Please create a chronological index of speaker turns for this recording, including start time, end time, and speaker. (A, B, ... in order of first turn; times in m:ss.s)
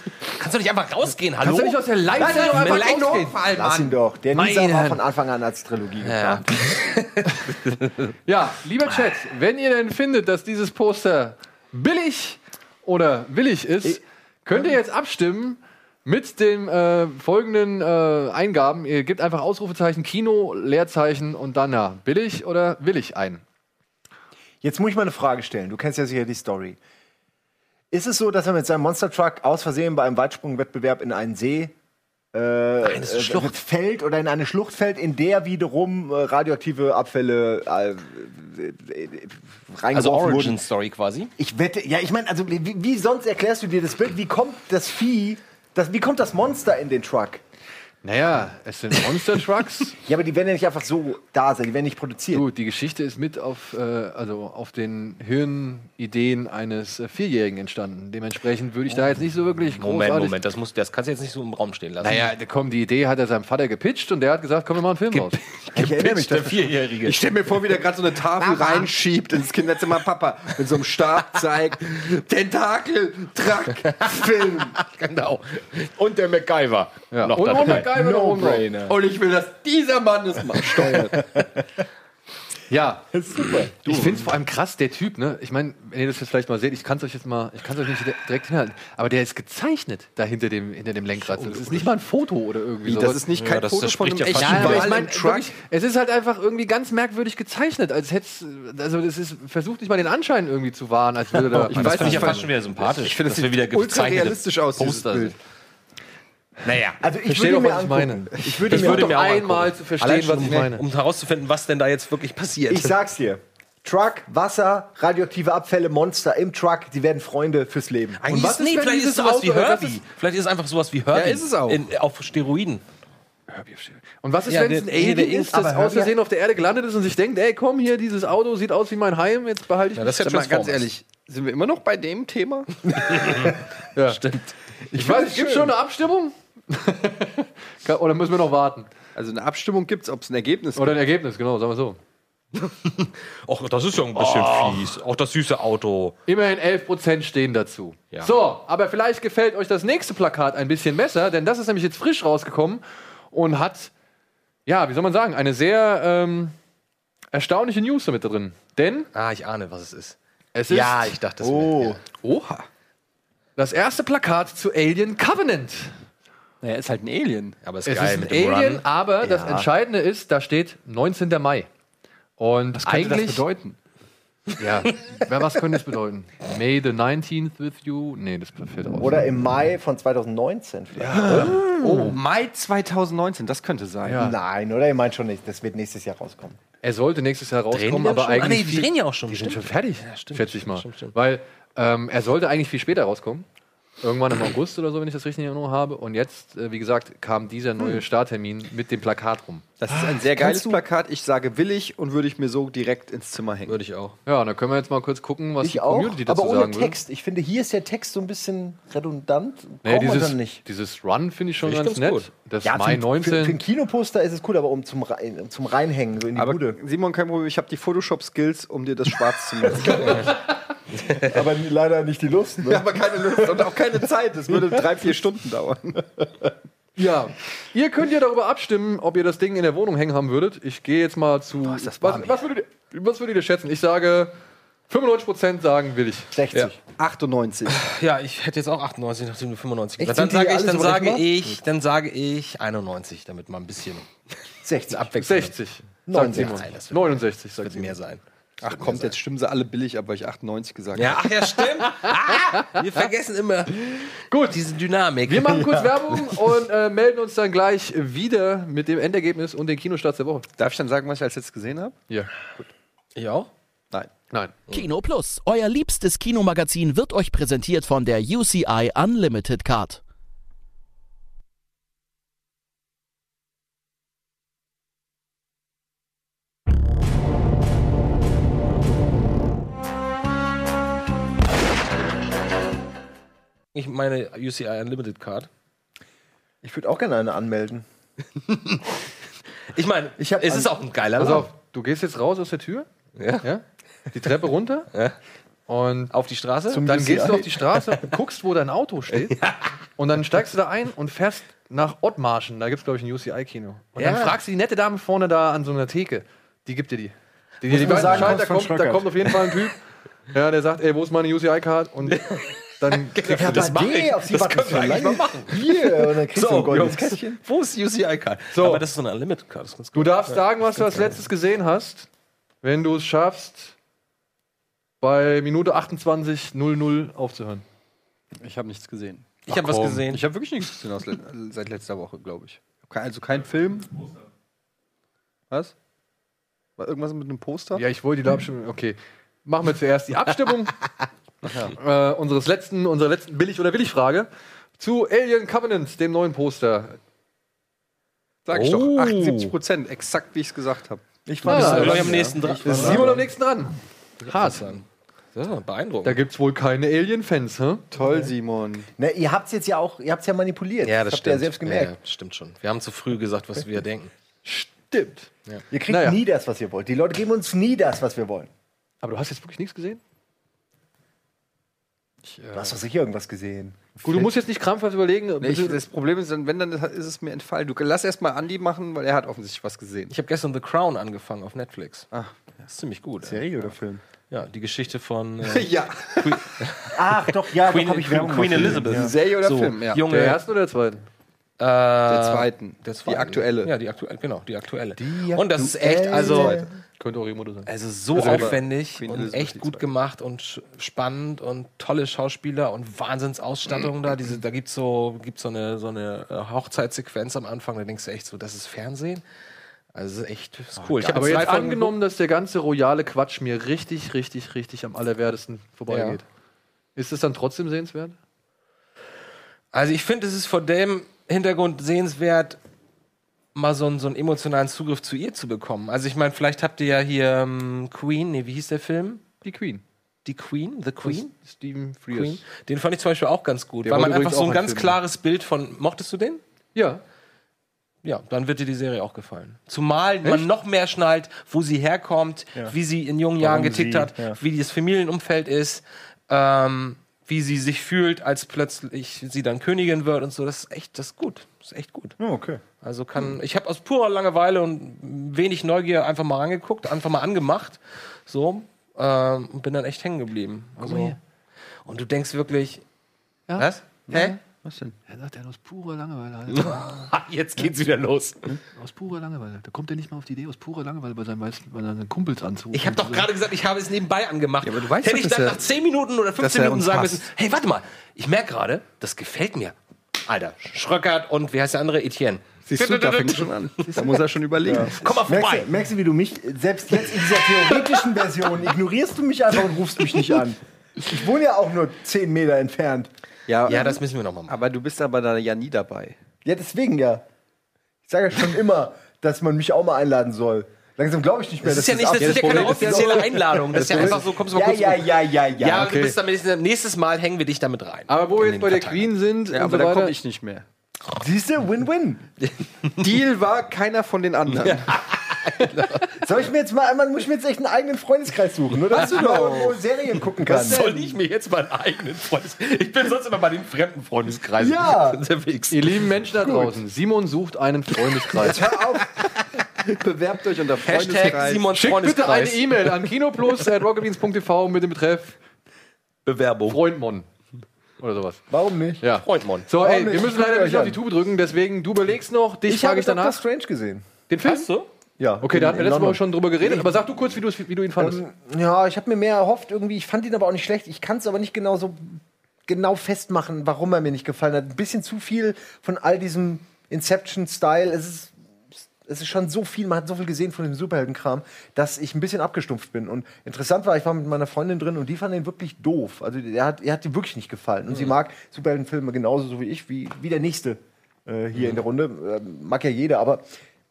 0:00.4-0:03.9 A
0:01.4-0:03.4 B
0:03.4-0:06.5 C
0:04.3-0:05.0 B
0:06.0-0:08.1 A
0:08.3-0:23.4 B
0:24.6-0:26.8 C
0:27.9-0:31.7 C
0:32.3-0:40.6 C
0:32.8-0:33.6 A
0:39.9-0:41.3 A
0:41.4-0:47.4 C
0:48.0-0:50.0 B
0:50.0-0:52.5 C
0:52.3-1:00.4 B
0:59.8-1:02.3 A
1:02.0-1:05.4 B
1:05.1-1:07.2 A
1:05.7-1:06.7 C
1:07.0-1:14.4 D
1:08.4-1:08.8 A
1:13.9-1:17.9 A
1:14.2-1:14.5 C
1:17.1-1:18.7 B
1:17.4-1:19.0 C
1:18.8-1:21.3 D
1:20.7-1:21.5 C
1:22.7-1:23.0 B
1:23.1-1:24.3 C
1:23.8-1:33.2 B
1:31.4-1:31.8 A
1:32.8-1:35.5 D
1:33.3-1:35.0 A
1:34.3-1:42.5 B
1:41.5-1:45.4 A
1:41.7-1:45.4 D
1:46.6-1:47.0 A
1:47.0-1:49.2 C
1:47.3-1:50.8 B
1:48.7-1:53.0 A
1:52.7-1:58.2 C
1:58.2-2:02.8 A
1:58.3-2:00.0 B
2:01.1-2:01.8 D
2:03.5-2:10.2 B
2:04.5-2:05.7 A
2:05.6-2:06.1 C
2:10.0-2:10.9 A
2:10.2-2:12.8 D
2:13.0-2:13.6 A
2:14.0-2:14.2 B
2:14.1-2:14.4 A
2:14.9-2:18.9 B
2:15.0-2:15.7 D
2:19.2-2:21.0 D
2:20.8-2:22.0 B
2:22.6-2:26.2 A
2:24.3-2:24.8 B
2:26.3-2:33.9 B
2:34.7-2:36.5 B
2:37.3-2:39.1 B
2:39.1-2:40.2 A
2:40.6-2:41.2 B
2:40.7-2:42.0 A
2:41.4-2:42.0 C
2:42.2-2:42.6 B
2:43.6-2:45.9 B
2:46.6-2:47.6 D
2:47.6-2:48.8 A
2:47.8-2:51.7 B
2:49.2-2:49.7 C
2:52.4-2:53.4 B
2:52.8-2:53.8 D
2:54.6-2:59.3 B
2:59.0-3:01.7 C
3:01.0-3:02.2 B
3:01.2-3:04.3 D
3:04.1-3:04.4 B
3:04.1-3:06.6 C
3:06.8-3:13.5 B
3:07.7-3:11.2 A
3:14.0-3:19.7 B
3:19.8-3:23.8 D
3:19.9-3:20.8 C
3:23.7-3:24.2 A
3:24.3-3:27.0 B
3:25.6-3:30.6 C
3:29.8-3:33.6 B
3:31.6-3:32.3 A
3:32.6-3:36.8 C
3:36.4-3:40.4 D
3:39.7-3:40.3 C
3:41.2-3:43.8 C
3:42.7-3:46.0 D
3:44.5-3:44.8 C
3:47.0-3:54.3 B
3:51.6-3:52.4 A
3:54.9-3:56.3 B
3:56.3-3:56.8 C
3:57.0-3:57.9 D
3:57.7-4:04.1 A
4:00.0-4:01.6 C
4:04.6-4:05.3 C
4:04.9-4:05.5 A
4:05.2-4:08.0 B
4:06.1-4:06.6 C
4:06.2-4:08.2 A
4:08.6-4:11.2 D
4:10.9-4:16.0 A
4:14.3-4:14.6 B
4:15.3-4:20.5 B
4:20.6-4:22.0 D
4:22.1-4:22.7 B
4:23.2-4:23.5 A
4:24.7-4:30.0 E
4:43.7-4:45.5 A
4:46.6-4:47.9 C
4:48.5-4:48.8 A
4:49.7-4:51.5 A
4:50.2-4:51.4 C
4:51.2-4:52.9 B
4:53.2-4:53.5 A
4:53.4-4:54.9 B
4:55.7-4:56.1 B
4:56.1-4:56.9 A
4:56.7-4:57.6 C
4:56.8-4:59.4 B
4:59.3-4:59.6 A
5:00.0-5:09.8 B
5:04.0-5:04.4 A
5:07.6-5:09.4 C
5:07.8-5:08.4 A
5:10.3-5:12.2 B
5:12.1-5:21.2 A
5:12.8-5:13.7 B
5:13.2-5:17.4 C
5:18.5-5:18.8 B
5:20.0-5:22.1 B
5:22.6-5:23.8 B
5:25.0-5:27.6 B
5:28.4-5:29.4 D
5:29.5-5:30.2 A
5:29.5-5:30.0 B
5:30.0-5:34.1 D
5:36.8-5:37.8 D
5:37.8-5:40.8 B
5:41.4-5:41.7 D
5:41.8-5:47.0 B
5:48.5-5:53.1 D
5:48.5-5:49.5 A
5:51.3-5:53.2 C
5:51.4-5:53.2 A
5:51.5-5:52.1 B
5:52.7-5:53.8 B
5:54.2-5:56.2 A
5:54.3-5:54.8 B
5:56.0-5:57.8 B
5:57.9-5:58.9 D
5:59.0-6:02.0 C
6:00.8-6:04.1 A
6:04.4-6:05.3 B
6:05.7-6:08.5 C
6:05.9-6:06.2 B
6:09.0-6:10.0 B
6:12.2-6:12.8 B
6:12.5-6:14.3 C
6:14.0-6:15.8 B
6:15.4-6:20.1 D
6:20.1-6:22.1 A
6:22.1-6:22.6 D
6:22.7-6:23.5 A
6:23.2-6:24.0 D
6:23.4-6:24.0 C
6:24.3-6:30.4 A
6:25.4-6:26.4 D
6:26.9-6:29.1 C
6:28.5-6:30.0 D
6:30.1-6:31.0 B
6:31.6-6:36.6 A
6:32.1-6:33.7 D
6:35.1-6:36.7 C
6:35.6-6:36.7 D
6:37.0-6:38.6 B
6:37.7-6:49.2 A
6:38.2-6:39.9 D
6:49.9-6:52.0 A
6:50.8-6:51.7 C
6:51.1-6:56.2 B
6:55.9-6:56.2 A
6:57.0-6:58.2 B
6:59.7-7:02.6 A
7:03.6-7:09.2 A
7:09.4-7:09.8 B
7:10.2-7:11.3 A
7:11.0-7:12.4 B
7:12.1-7:16.4 A
7:13.8-7:15.0 B
7:16.8-7:17.0 B
7:18.0-7:32.2 A
7:23.4-7:24.4 C
7:32.2-7:32.6 C
7:32.8-7:41.2 A
7:40.8-7:41.2 B
7:41.8-7:42.8 A
7:43.5-7:44.4 B
7:43.6-7:44.4 A
7:44.1-7:45.0 D
7:45.1-7:46.9 B
7:46.5-7:48.6 A
7:48.8-7:53.3 B
7:52.7-7:59.8 A
7:54.6-7:55.6 D
7:56.4-7:57.2 D
8:00.3-8:04.2 A
8:02.7-8:04.9 D
8:04.6-8:13.1 C
8:05.0-8:05.7 A
8:13.5-8:16.2 D
8:13.7-8:14.6 A
8:16.4-8:17.2 C
8:18.0-8:25.9 C
8:21.6-8:29.1 A
8:22.2-8:23.2 B
8:23.8-8:24.2 B
8:25.8-8:26.2 B
8:28.1-8:30.2 B
8:29.5-8:30.7 D
8:31.1-8:32.2 C
8:33.0-8:34.9 D
8:34.6-8:36.1 A
8:36.2-8:40.9 C
8:38.9-8:39.7 A
8:39.1-8:39.7 D
8:40.4-8:46.0 A
8:44.6-8:45.2 C
8:45.7-8:48.6 B
8:48.4-8:49.2 D
8:49.8-8:51.6 D
8:50.8-8:52.9 A
8:51.7-8:55.4 B
8:56.3-8:56.8 A
8:56.7-8:57.3 B
8:58.0-8:58.4 B
8:58.5-8:59.0 C
8:59.0-9:03.4 B
8:59.2-8:59.7 A
8:59.7-9:01.0 C
9:02.7-9:04.1 C
9:04.3-9:04.7 B
9:04.4-9:04.9 A
9:05.2-9:07.0 C
9:05.4-9:08.2 B
9:08.0-9:18.3 C
9:19.0-9:33.4 C